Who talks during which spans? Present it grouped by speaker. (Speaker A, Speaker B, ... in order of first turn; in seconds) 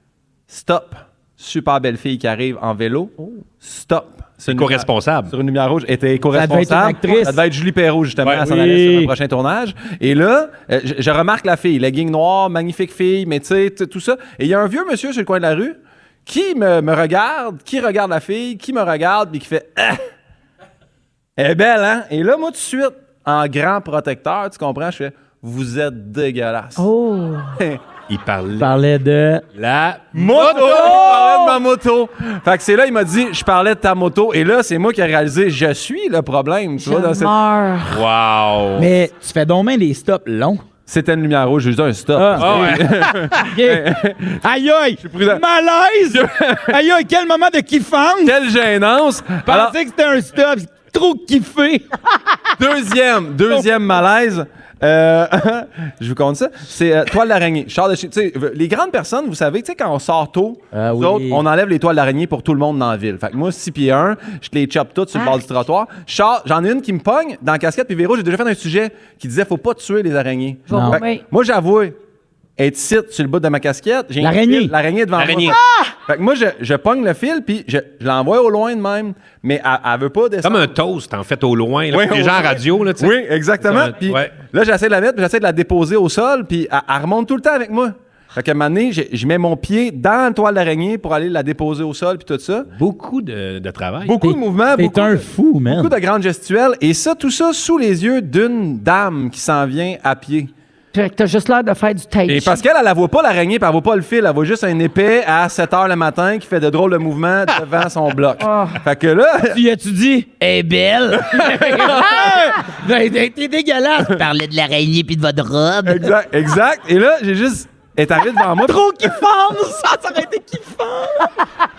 Speaker A: 0.5-20.0, 21.4-26.9, 30.1-37.3, 40.9-44.4, 45.0-45.4, 46.1-46.8, 48.2-49.8, 52.6-72.0, 72.6-80.7, 81.9-92.7, 94.0-100.5, 102.3-109.6, 111.3-112.4, 115.8-119.1
Speaker B: 4.5-5.3, 28.1-28.7, 29.6-31.2, 37.9-38.9, 42.4-42.9, 75.2-75.6, 80.4-84.3, 92.7-94.1
Speaker C: 6.3-7.4, 8.4-9.1, 28.6-29.4, 38.8-40.6, 42.1-48.4, 49.5-51.9, 60.7-61.4, 70.7-71.0, 74.2-74.7, 94.2-95.9, 109.5-116.1, 118.5-121.3
Speaker D: 26.8-27.5, 30.7-31.3, 36.8-38.0, 65.1-65.4, 70.7-71.2, 100.9-102.6, 108.4-108.8